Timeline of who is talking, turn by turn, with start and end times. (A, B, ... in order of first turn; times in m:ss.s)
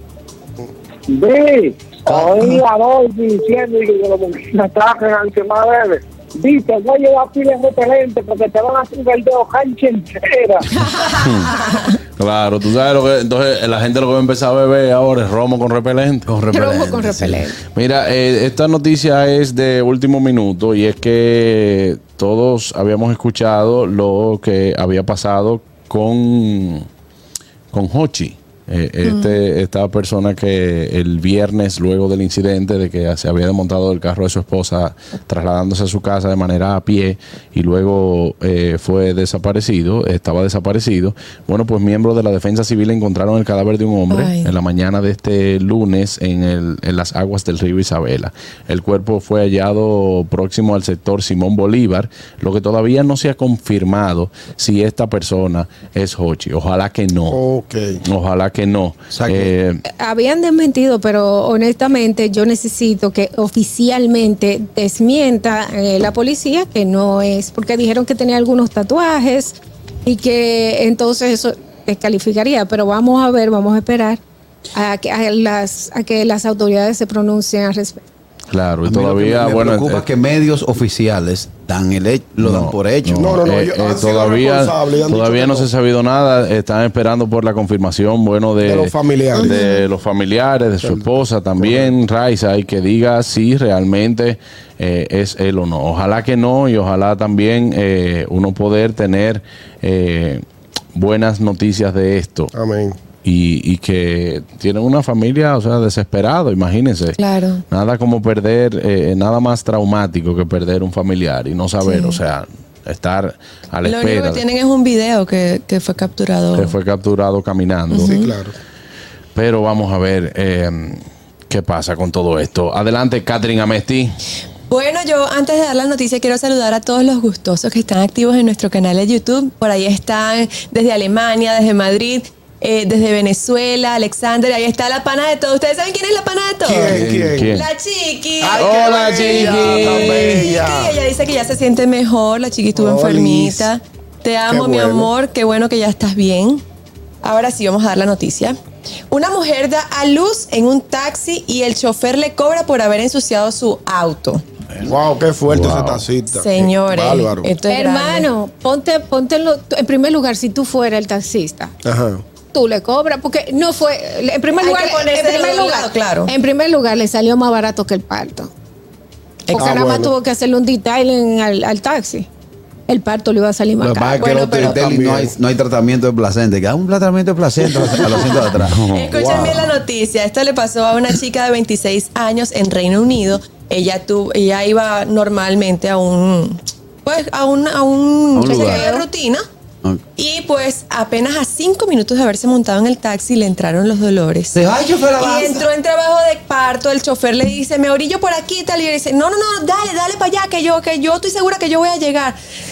0:01.1-0:10.7 A
0:11.2-0:11.6 B
0:12.2-0:16.3 B
0:16.3-0:17.5 C
0:16.5-0:17.6 D
0:17.8-0:26.9 B
0:27.7-0:57.4 B
0:29.0-0:29.4 E
0:44.1-0:44.5 E
0:57.3-0:58.0 F
0:58.0-0:59.8 B
0:59.1-0:59.5 C
1:00.0-1:09.6 D
1:10.1-1:14.2 D
1:14.7-1:18.0 D
1:18.5-1:20.0 B
1:18.8-1:23.4 C
1:22.4-1:40.4 B
1:23.2-1:25.7 F
1:28.6-1:29.6 F
1:29.4-1:29.8 D
1:31.6-1:31.9 F
1:41.0-1:42.5 B
1:42.5-1:43.0 F
1:43.2-1:54.4 B
1:47.2-1:47.6 E
1:51.8-1:52.2 E
1:53.8-1:56.7 E
1:56.6-1:58.2 B
1:57.9-1:58.3 E
1:58.0-1:58.6 F
1:59.4-2:04.2 B
2:04.7-2:16.9 E
2:16.6-2:17.5 F
2:16.9-2:17.4 C
2:17.4-2:17.7 B
2:17.5-2:26.6 E
2:18.4-2:21.0 F
2:18.6-2:20.4 B
2:22.8-2:23.7 F
2:24.5-2:25.1 F
2:27.2-2:28.6 E
2:29.1-2:34.4 E
2:34.8-2:37.5 F
2:35.5-2:36.0 B
2:36.4-2:38.3 E
2:37.7-2:41.7 D
2:41.8-2:42.2 F
2:42.5-2:48.5 D
2:44.6-2:46.3 E
2:49.5-2:49.8 E
2:49.5-2:52.3 D
2:49.6-2:50.1 F
2:52.9-2:54.2 D
2:53.8-2:59.6 C
2:54.2-2:54.9 E
2:54.6-2:55.3 F
2:58.0-2:58.3 E
2:58.7-2:59.0 B
2:58.9-3:09.4 E
2:59.2-2:59.5 F
3:08.3-3:08.9 C
3:08.5-3:09.0 D
3:10.2-3:14.6 E
3:14.5-3:15.7 C
3:15.2-3:22.4 E